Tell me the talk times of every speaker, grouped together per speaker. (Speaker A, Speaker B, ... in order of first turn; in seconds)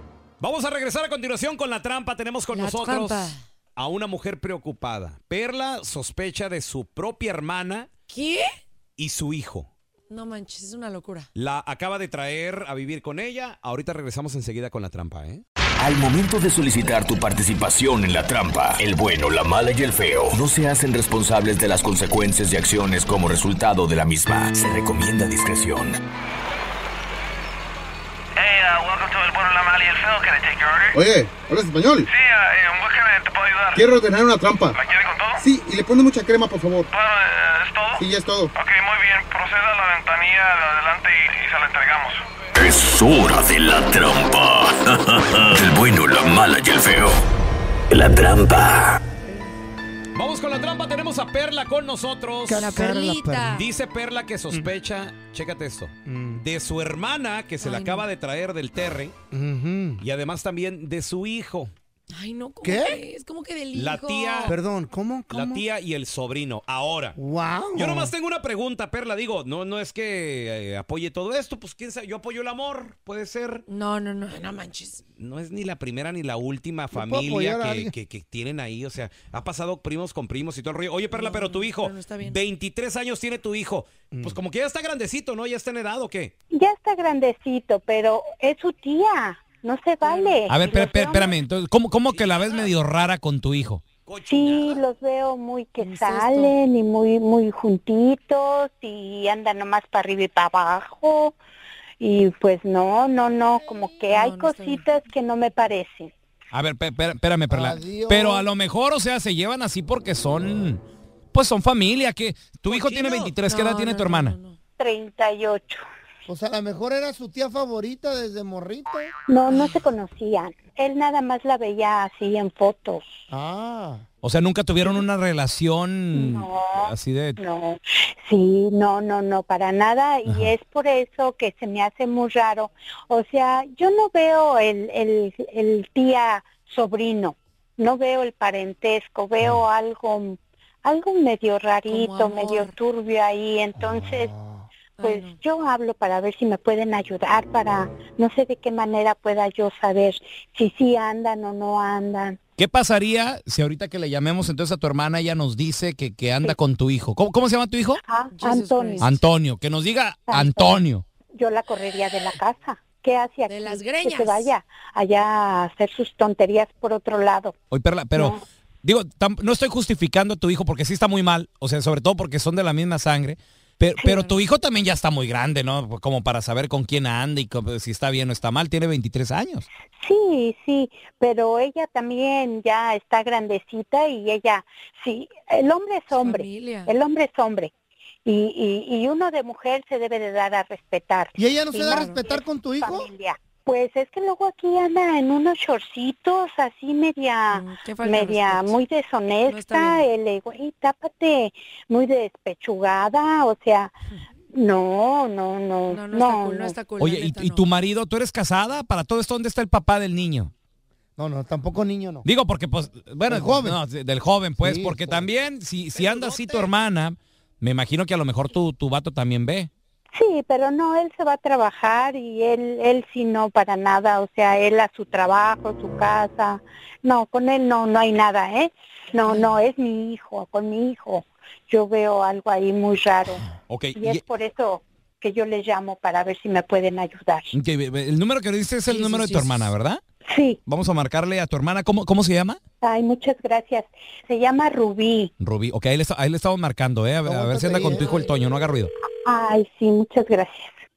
Speaker A: 0.4-7.9, 9.0-9.7, 11.3-15.4, 50.1-52.7, 53.5-59.1, 60.0-61.7, 63.7-64.6, 65.3-67.2, 67.8-73.7, 75.2-86.3, 92.1-92.7, 94.1-94.8, 112.7-113.3, 215.9-216.7
Speaker B: 2.5-3.4, 8.1-8.6, 10.1-11.3, 52.6-53.6, 57.6-58.1, 62.1-64.5, 73.7-75.0, 81.1-82.4, 90.0-90.4, 95.8-96.5, 104.1-104.8, 113.5-114.6, 119.5-119.8, 141.9-142.8, 145.0-145.4, 158.3-159.1, 163.5-164.5, 186.1-186.9, 191.7-192.2, 197.5-198.8, 199.5-200.0, 205.9-207.6, 238.9-239.7, 248.1-248.3
Speaker C: 15.8-26.0, 42.5-47.2, 47.9-49.0
Speaker D: 28.4-31.0, 32.1-33.8, 34.8-35.5, 36.9-38.0, 38.6-42.2
Speaker E: 30.9-32.1, 33.8-34.8, 35.4-36.9, 38.0-38.5
Speaker F: 52.5-53.6, 56.1-56.5, 59.3-60.0, 62.6-63.0, 64.5-65.6, 67.2-68.1, 76.9-77.9, 84.1-84.4, 107.5-108.5, 116.3-119.1, 123.3-124.0, 143.8-144.7, 191.4-193.1, 211.2-212.2, 213.3-213.8, 214.6-215.3, 247.2-248.1
Speaker G: 86.5-91.4, 94.3-101.4, 102.0-106.1, 114.8-115.8, 119.3-123.0, 126.1-144.3, 145.0-152.4, 158.1-159.2, 160.3-160.8, 161.4-167.6, 168.1-168.4, 174.0-174.4, 180.0-187.7, 188.2-203.9, 204.5-206.8, 220.1-237.5, 240.3-240.6, 242.8-245.3, 249.2-250.8
Speaker H: 90.5-93.8, 106.5-114.3, 124.2-127.4, 130.3-130.5, 152.6-158.0, 159.0-161.1, 167.7-179.7, 207.0-210.5, 212.3-219.7, 233.7-234.2, 237.5-240.0, 240.7-242.6, 245.4-248.9